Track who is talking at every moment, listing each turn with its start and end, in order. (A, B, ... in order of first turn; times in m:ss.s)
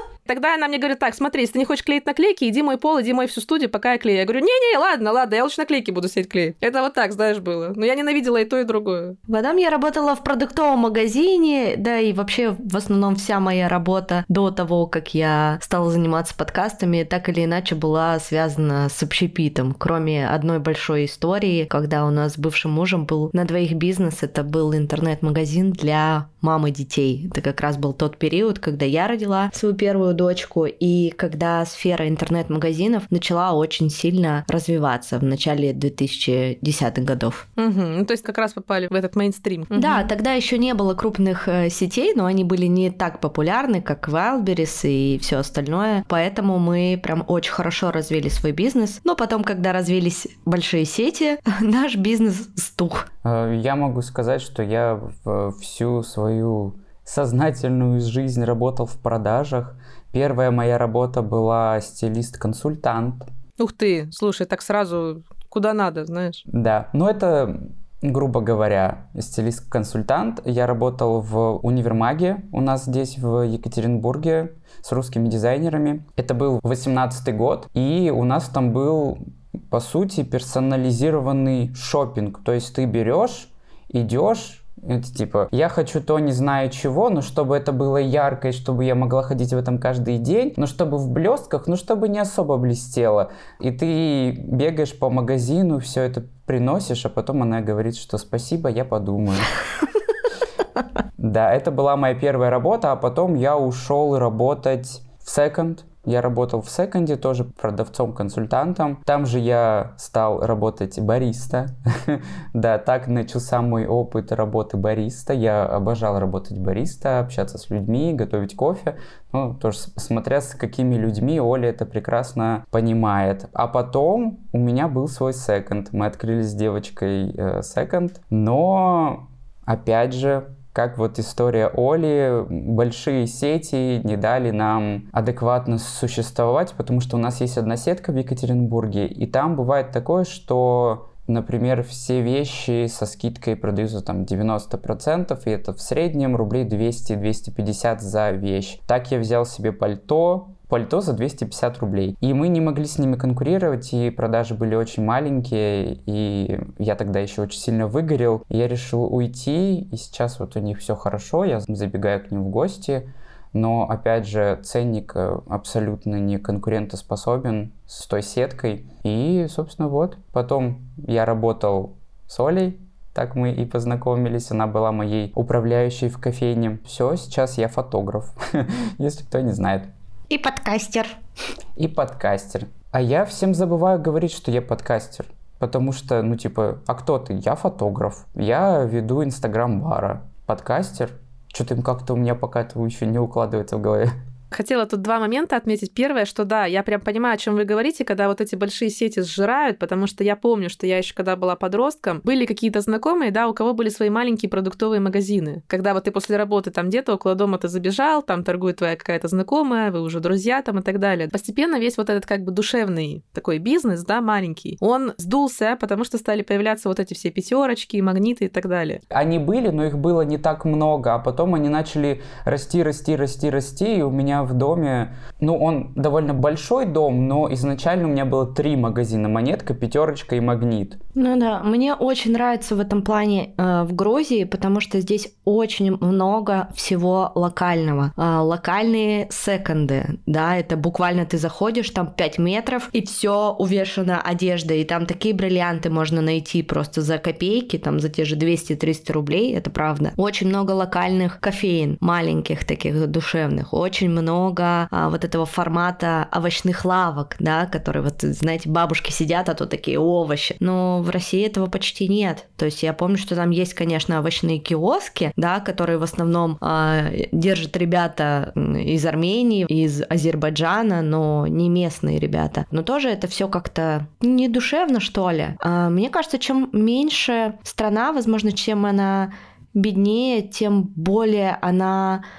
0:00.3-0:09.2 A
0:09.3-0:37.4 B
0:37.6-0:40.1 A
0:39.8-0:53.1 B
0:53.2-1:03.3 C
1:03.6-1:06.4 A
1:06.5-1:39.6 C
1:41.2-2:59.9 C
3:00.3-3:01.2 B
3:01.8-3:14.1 C
3:14.5-3:39.0 A
3:39.1-3:51.0 C
3:51.2-4:42.2 B